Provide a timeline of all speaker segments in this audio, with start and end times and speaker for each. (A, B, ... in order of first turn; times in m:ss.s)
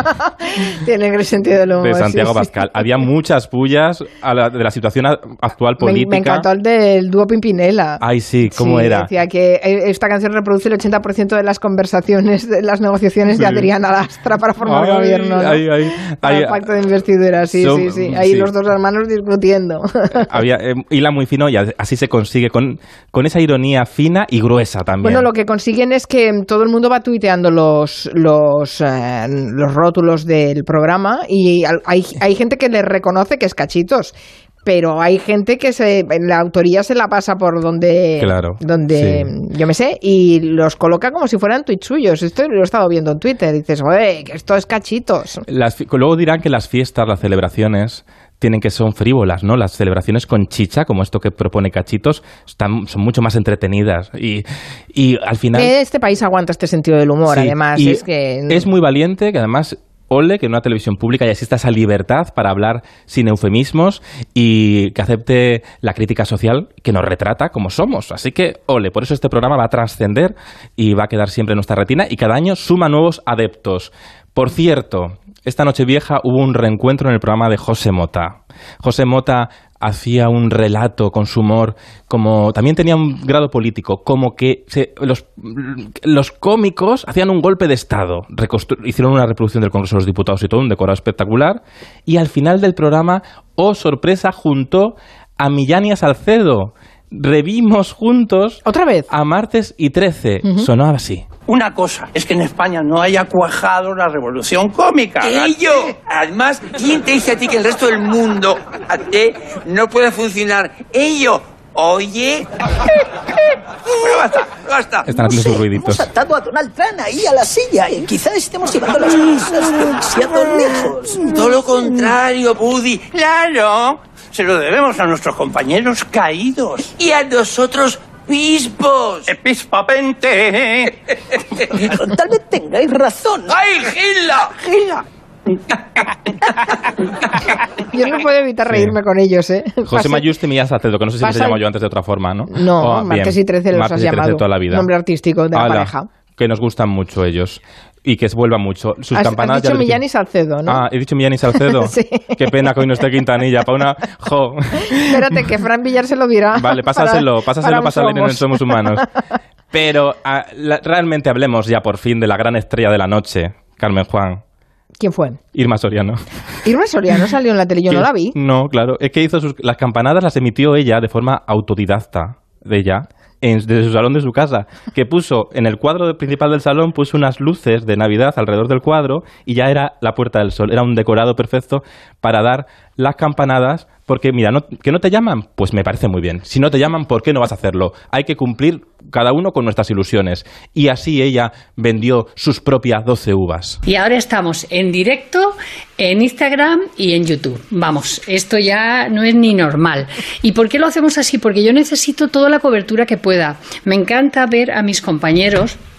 0:00.2-0:02.5 A
0:01.8-0:06.5 B
0:05.8-0:20.3 A
0:08.0-0:09.1 B
0:13.4-0:13.7 B
0:14.6-0:16.6 B
0:17.5-0:18.5 B
0:20.1-0:25.3 B
0:25.0-0:45.4 A
0:38.2-0:39.3 B
0:45.5-0:55.7 B
0:55.5-0:58.6 A
0:57.3-1:41.2 B
1:38.6-1:39.1 A
1:41.5-1:45.3 C
1:45.2-1:52.5 D
1:54.0-1:55.1 D
1:55.0-1:56.1 B
1:55.1-2:01.2 E
1:59.1-1:59.5 D
2:01.2-2:04.0 D
2:04.3-2:06.8 C
2:06.1-2:09.3 D
2:09.3-2:10.9 C
2:11.9-2:13.5 E
2:13.5-2:14.6 D
2:14.7-2:15.0 E
2:17.9-2:20.3 A
2:18.6-2:19.0 B
2:19.8-2:24.9 B
2:21.2-2:21.6 A
2:22.5-2:26.1 A
2:25.5-2:30.0 B
2:29.1-2:30.8 A
2:30.6-2:35.2 B
2:31.5-2:32.5 A
2:35.0-2:38.9 A
2:36.5-2:39.0 B
2:39.7-2:44.4 B
2:45.0-2:45.4 A
2:45.5-2:46.2 B
2:46.6-2:48.3 A
2:47.9-3:13.8 B
3:13.9-3:25.8 F